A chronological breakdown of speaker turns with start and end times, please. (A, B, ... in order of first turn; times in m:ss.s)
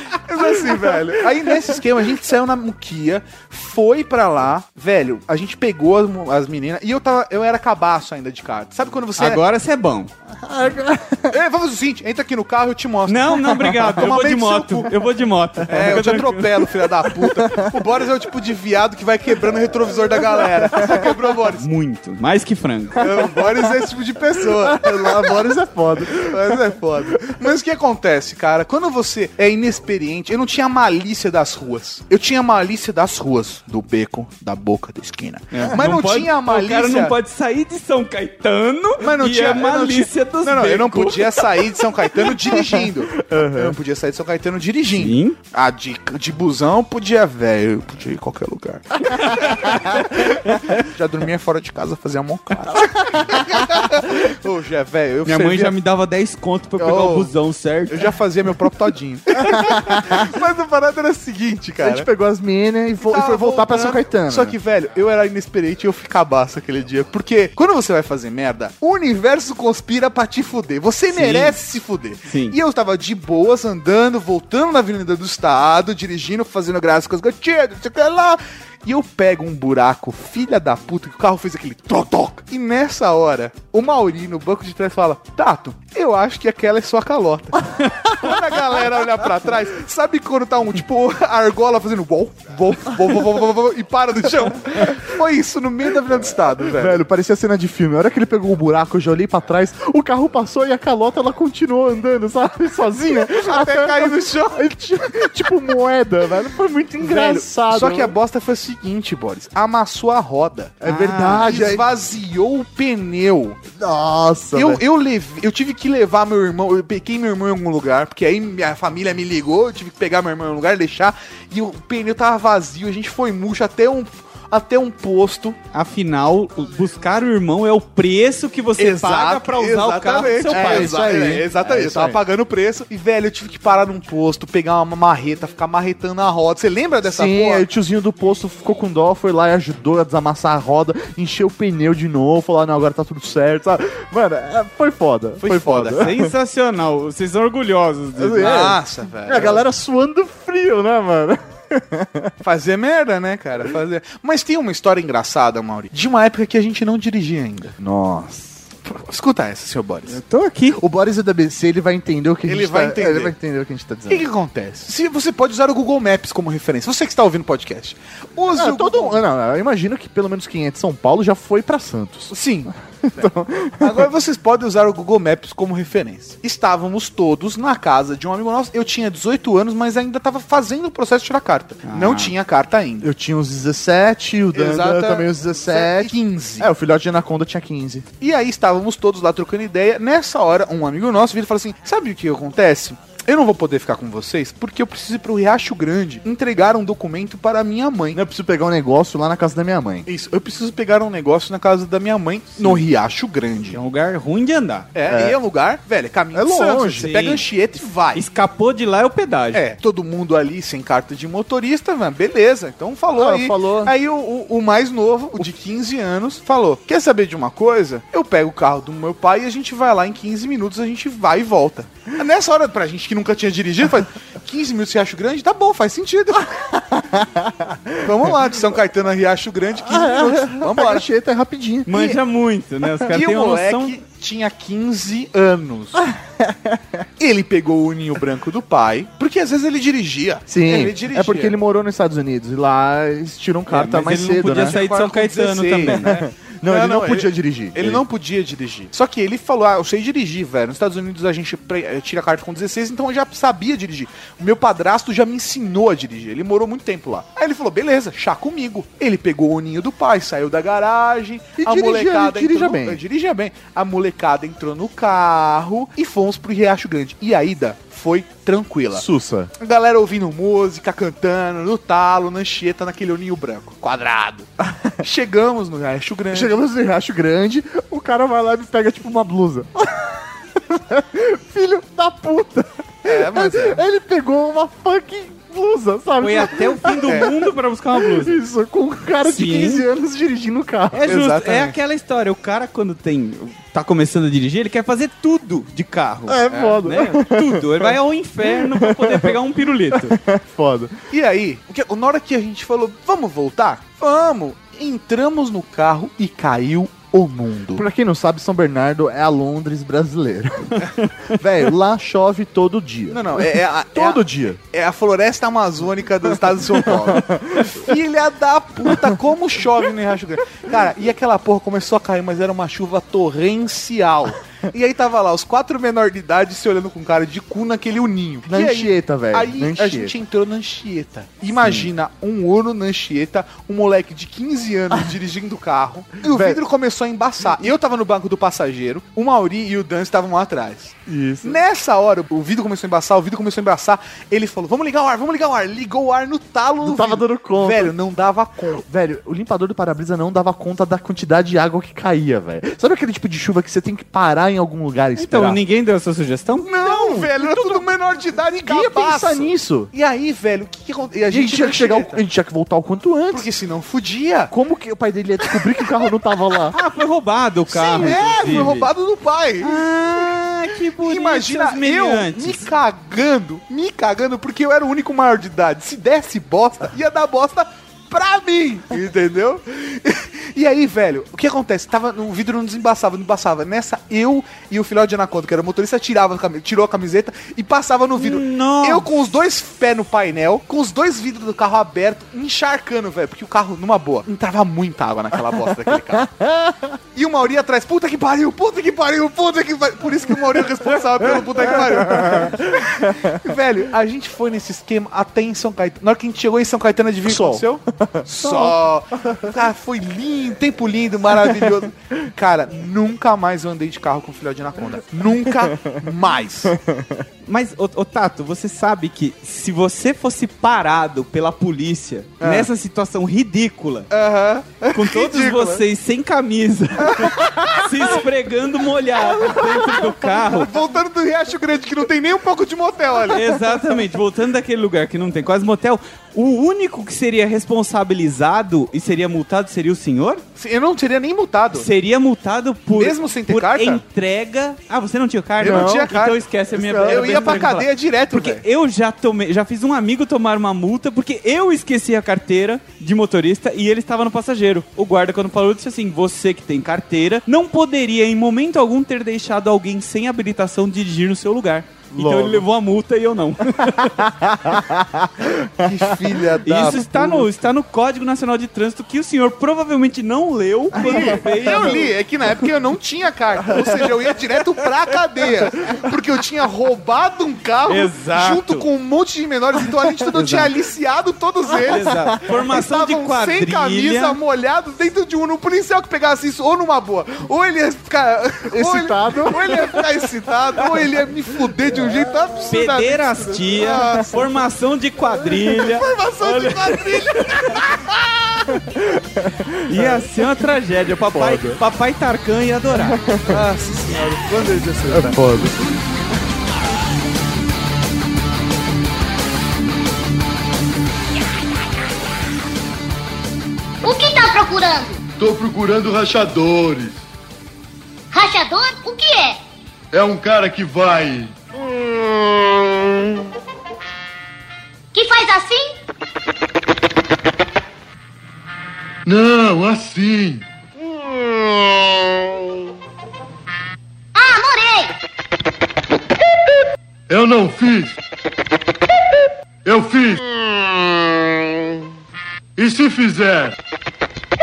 0:00.2-0:09.4 A
0:00.4-0:01.7 B
0:09.2-0:10.1 C
0:10.3-0:11.4 B
0:11.3-0:14.9 A
0:13.1-0:16.6 C
0:15.7-0:21.6 A
0:17.2-0:17.7 B
0:20.8-0:21.0 B
0:21.6-0:23.0 C
0:23.0-0:25.6 A
0:23.4-0:23.7 B
0:24.5-0:27.4 B
0:26.1-0:37.1 A
0:35.5-0:41.4 C
0:39.0-0:55.7 A
0:42.6-0:43.8 B
0:45.0-0:45.4 C
0:49.2-0:50.7 C
0:53.1-0:53.5 B
0:55.2-0:58.0 C
0:56.8-0:57.3 A
0:57.9-1:02.1 A
0:59.5-1:00.2 B
1:01.8-1:04.6 B
1:03.0-1:37.0 A
1:11.1-1:11.6 C
1:12.3-1:12.6 C
1:36.7-1:48.1 B
1:43.3-1:44.6 A
1:47.0-1:50.8 A
1:50.8-1:51.8 B
1:50.8-1:51.4 C
1:51.4-1:53.6 A
1:53.8-1:54.8 B
1:54.5-2:05.6 A
2:05.7-2:11.0 C
2:08.8-2:17.6 A
2:10.4-2:12.2 B
2:17.0-2:26.3 B
2:25.4-2:26.1 A
2:25.4-2:28.7 C
2:28.2-2:32.3 B
2:28.4-2:29.6 A
2:32.4-2:37.8 A
2:37.8-2:38.6 B
2:38.8-2:40.2 A
2:40.1-2:40.8 C
2:40.7-2:44.2 B
2:42.4-2:43.3 A
2:44.1-2:49.2 A
2:48.5-2:54.1 B
2:52.3-2:52.7 A
2:53.8-3:03.1 A
3:01.8-3:02.3 C
3:03.0-3:08.0 B
3:04.5-3:06.7 A
3:08.2-3:18.2 A
3:18.1-3:20.1 B
3:20.1-3:23.8 A
3:23.7-3:24.9 C
3:24.9-3:28.2 A
3:25.1-3:25.4 B
3:26.3-3:27.1 B
3:27.0-3:27.4 C
3:28.1-3:29.6 C
3:29.5-3:46.6 A
3:33.1-3:33.9 B
3:46.6-3:48.1 B
3:48.0-3:51.0 A
3:49.8-3:52.2 B
3:51.9-3:54.0 C
3:53.1-3:56.0 A
3:56.0-3:57.0 B
3:57.2-4:01.5 A
4:00.5-4:04.8 B
4:03.7-4:06.1 C
4:04.5-4:29.0 A
4:05.8-4:08.0 B
4:21.6-4:23.0 B
4:28.9-4:29.5 B
4:29.6-4:34.5 A
4:35.0-4:36.6 A
4:36.3-4:51.2 B
4:43.0-4:43.8 A
4:46.2-4:48.4 C
4:47.0-4:47.3 A
4:49.2-4:49.8 C
4:50.9-5:00.2 C
4:51.0-4:51.7 A
4:56.3-4:59.4 B
4:56.5-4:56.8 A
4:59.9-5:01.0 B
5:01.1-5:07.8 A
5:07.7-5:14.6 B
5:13.1-5:48.8 A
5:16.8-5:17.8 B
5:28.5-5:30.1 B
5:36.2-5:36.6 B
5:41.1-5:41.6 B
5:46.8-5:47.9 B
5:48.8-5:55.6 B
5:55.2-5:56.7 C
5:56.6-6:02.2 A
5:56.8-5:57.9 B
5:58.6-5:59.9 B
6:01.3-6:03.5 B
6:03.3-6:04.5 A
6:04.5-6:06.7 B
6:06.7-6:08.9 C
6:07.7-6:09.8 A
6:08.0-6:08.6 B
6:09.6-6:12.7 C
6:11.0-6:36.3 A
6:28.2-6:29.1 C
6:36.2-6:37.0 B
6:37.1-6:56.8 A
6:41.4-6:43.4 B
6:47.2-6:49.4 B
6:55.4-6:56.0 B
6:56.7-6:57.2 B
6:57.4-7:04.1 C
7:02.4-7:02.7 A
7:04.1-7:05.8 A
7:04.9-7:10.7 C
7:07.0-7:07.8 A
7:09.3-7:10.2 B
7:10.5-7:13.4 A
7:13.3-7:20.4 C
7:20.6-7:21.9 A
7:21.8-7:44.3 C
7:23.0-7:24.0 A
7:25.6-7:26.4 A
7:25.6-7:26.1 B
7:26.7-7:27.8 B
7:27.0-7:28.6 A
7:42.1-7:42.6 B
7:44.0-7:46.1 B
7:45.8-7:47.5 A
7:46.6-7:52.1 C
7:50.9-7:52.0 B
7:50.9-8:14.5 A
7:53.7-7:54.0 B
7:57.9-7:58.9 C
8:00.3-8:00.6 C
8:01.8-8:04.4 C
8:01.9-8:02.3 B
8:08.7-8:10.2 B
8:12.7-8:17.8 C
8:15.7-8:18.6 A
8:18.7-8:20.3 B
8:19.9-8:23.2 C
8:21.2-8:21.8 B
8:23.0-8:23.6 B
8:23.5-8:25.4 A
8:25.1-8:25.8 B
8:34.0-8:35.2 D
8:35.4-8:37.2 E
8:38.3-8:39.6 D
8:40.1-8:41.6 E
8:45.1-8:45.9 D
8:49.2-8:50.6 E
8:54.3-8:55.1 D
8:57.3-8:58.2 E
8:59.8-9:00.4 E
9:02.8-9:03.7 E